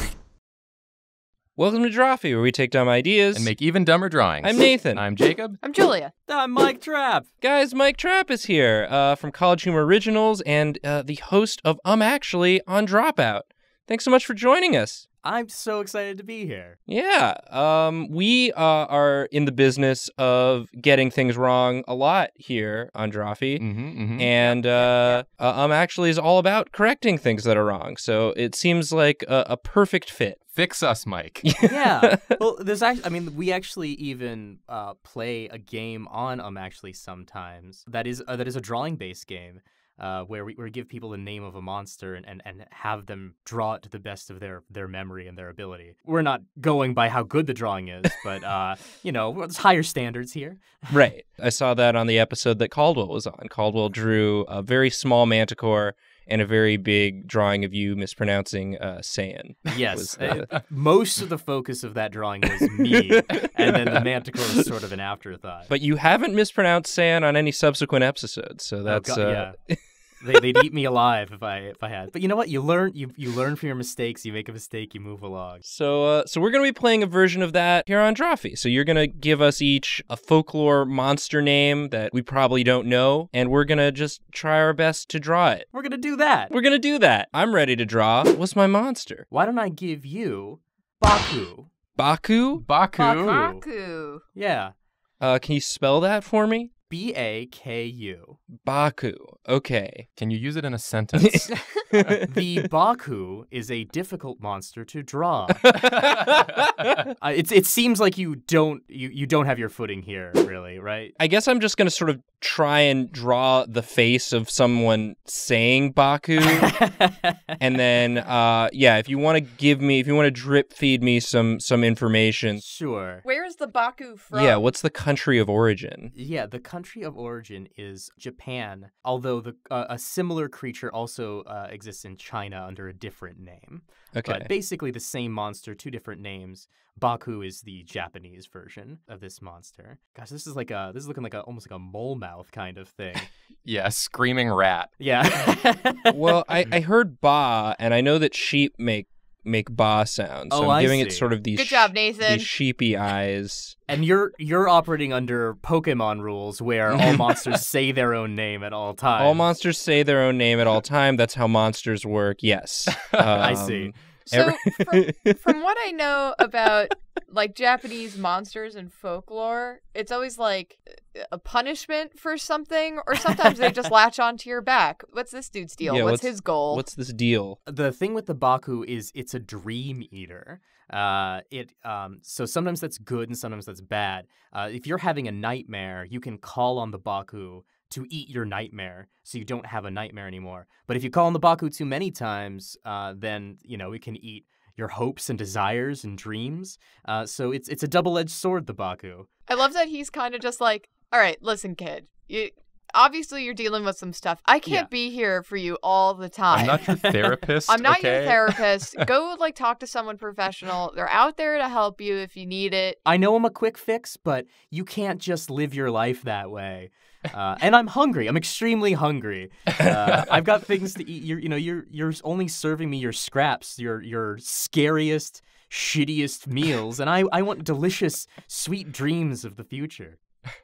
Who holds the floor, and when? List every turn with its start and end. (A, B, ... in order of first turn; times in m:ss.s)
0:01.6-0:03.5 A
0:03.3-0:05.6 B
0:04.4-0:05.0 A
0:05.6-0:06.1 C
0:06.3-0:07.3 D
0:07.4-0:15.0 A
0:15.2-0:16.8 D
0:16.9-0:30.4 A
0:23.6-0:24.3 B
0:24.4-0:25.2 D
0:30.5-0:31.4 B
0:31.4-0:32.3 A
0:31.6-0:51.0 D
0:50.9-1:00.5 A
0:59.7-1:05.7 D
1:02.6-1:04.0 A
1:05.7-1:09.8 A
1:08.8-1:09.6 D
1:10.2-1:15.6 D
1:10.4-1:10.6 A
1:15.6-1:25.7 A
1:25.7-1:26.5 D
1:26.5-1:29.3 A
1:29.3-1:31.7 D
1:32.0-1:32.6 A
1:32.6-1:33.4 B
1:33.0-1:33.6 D
1:33.0-1:34.2 C
1:34.3-1:34.7 D
1:35.2-1:36.7 A
1:36.9-1:38.4 D
1:38.6-1:40.0 A
1:40.2-1:41.5 B
1:41.2-1:42.7 A
1:42.3-1:45.9 D
1:45.6-1:46.9 A
1:47.2-1:51.1 D
1:51.2-1:56.8 A
1:56.5-1:57.4 D
1:57.6-2:02.6 A
2:02.6-2:03.2 D
2:03.2-2:04.6 C
2:04.3-2:06.1 A
2:06.1-2:23.3 D
2:14.1-2:14.5 A
2:23.6-2:25.0 B
2:25.0-2:26.3 D
2:26.1-2:33.8 A
2:30.5-2:31.3 D
2:31.5-2:32.5 C
2:33.9-2:39.4 D
2:36.9-2:37.4 A
2:39.2-2:45.4 A
2:43.0-2:43.2 B
2:43.4-2:43.9 D
2:44.3-2:56.8 C
2:55.8-2:57.6 A
2:57.6-3:19.3 D
3:19.5-3:27.0 C
3:26.5-3:28.6 B
3:26.6-3:27.2 D
3:27.7-3:33.0 C
3:33.0-3:50.2 D